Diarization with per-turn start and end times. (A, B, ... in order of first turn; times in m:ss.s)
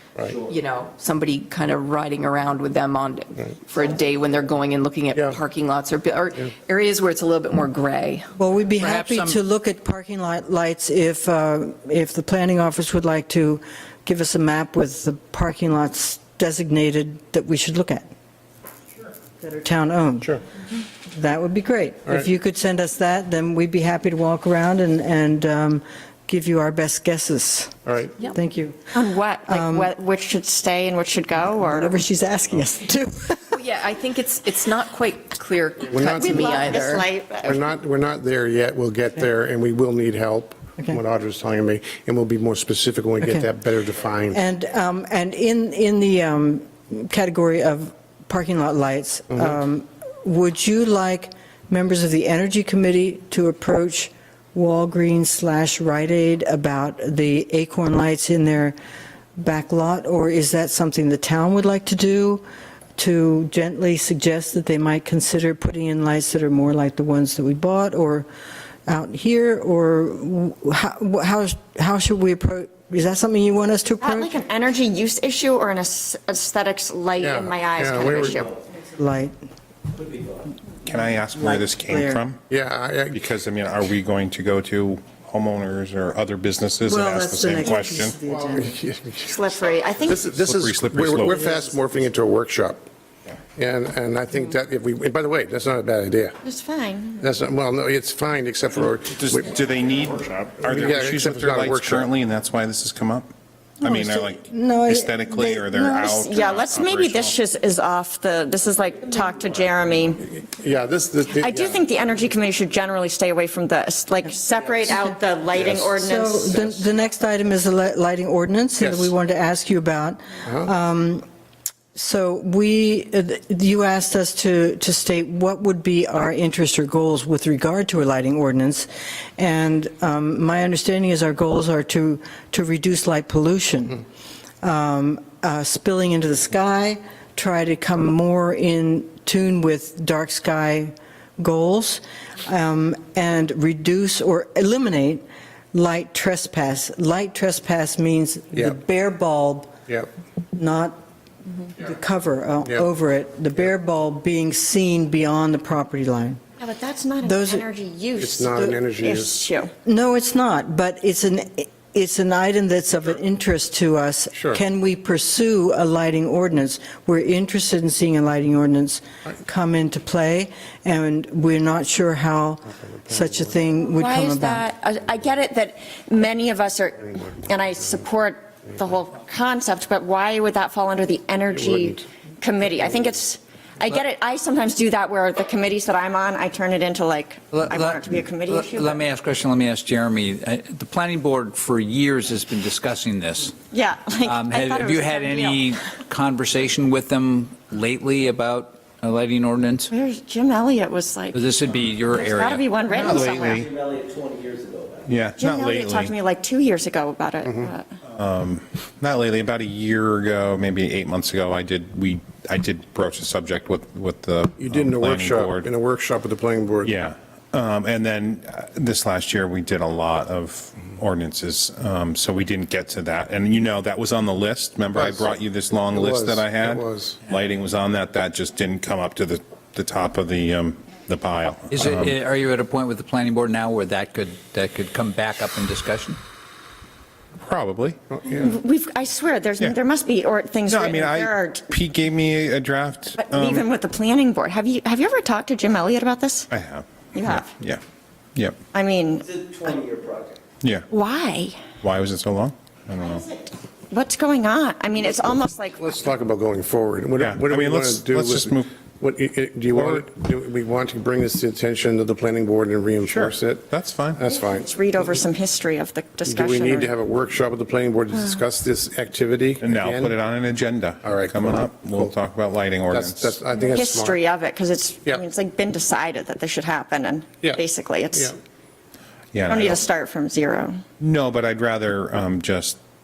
0:00.2-0:00.6 A
0:00.4-0:09.4 B
0:08.4-0:18.1 C
0:19.4-0:20.4 C
0:21.1-0:28.9 C
0:27.8-0:28.2 D
0:28.9-0:32.0 E
0:29.5-0:29.9 C
0:31.7-0:33.6 C
0:33.5-0:37.0 B
0:35.9-0:36.7 D
0:36.0-0:37.6 E
0:37.4-0:44.4 D
0:43.2-0:43.5 C
0:44.3-0:58.8 C
0:59.4-1:02.4 C
1:03.0-1:08.3 C
1:08.9-1:14.3 C
1:14.0-1:18.5 E
1:17.2-1:18.4 D
1:18.9-1:19.3 C
1:20.0-1:20.4 A
1:20.8-1:22.4 F
1:21.3-1:22.2 C
1:22.5-1:23.2 D
1:23.1-1:28.2 F
1:26.8-1:28.7 C
1:28.3-1:29.5 D
1:29.2-1:30.3 E
1:30.0-1:32.8 D
1:30.1-1:31.4 F
1:33.6-1:36.4 D
1:36.4-1:37.3 E
1:37.2-1:39.5 D
1:39.1-1:43.3 F
1:40.7-1:42.1 D
1:43.8-1:47.4 F
1:43.8-1:46.0 C
1:45.8-1:50.2 E
1:50.2-1:51.9 D
1:51.3-1:56.8 E
1:55.9-2:01.2 C
1:58.8-1:59.1 D
2:01.9-2:14.0 C
2:14.6-2:25.2 C
2:25.7-2:29.8 C
2:30.5-2:31.0 C
2:31.6-2:36.4 C
2:36.6-2:39.7 E
2:37.2-2:37.6 C
2:38.2-2:39.4 D
2:39.8-2:54.6 C
2:44.3-2:44.6 D
2:53.8-3:09.0 E
3:01.5-3:02.0 D
3:07.5-3:13.6 G
3:13.7-3:15.9 E
3:14.2-3:19.9 G
3:19.9-3:21.4 E
3:21.3-3:22.6 G
3:22.0-3:23.7 E
3:22.9-3:23.6 F
3:23.0-3:25.1 A
3:25.1-3:26.1 F
3:25.4-3:27.8 E
3:28.1-3:35.7 F
3:34.6-3:36.9 D
3:36.8-3:52.1 F
3:44.9-3:45.3 D
3:45.9-3:47.2 D
3:51.7-3:56.2 G
3:57.4-3:58.0 F
3:58.2-3:58.5 D
3:58.3-4:01.6 E
4:00.7-4:03.6 F
4:03.2-4:06.5 E
4:06.5-4:07.8 F
4:07.1-4:07.5 E
4:08.7-4:09.3 E
4:09.3-4:10.4 A
4:10.6-4:10.9 F
4:10.9-4:11.6 E
4:11.8-4:13.2 F
4:13.9-4:15.8 E
4:15.8-4:24.7 D
4:17.2-4:18.7 F
4:19.7-4:20.0 F
4:23.0-4:24.2 F
4:24.3-4:26.9 E
4:26.2-4:30.1 D
4:29.6-4:33.4 F
4:31.0-4:32.1 D
4:32.9-4:34.2 D
4:33.6-4:38.3 E
4:37.4-4:38.3 D
4:39.3-4:39.8 F
4:39.5-4:40.8 E
4:41.0-4:42.8 F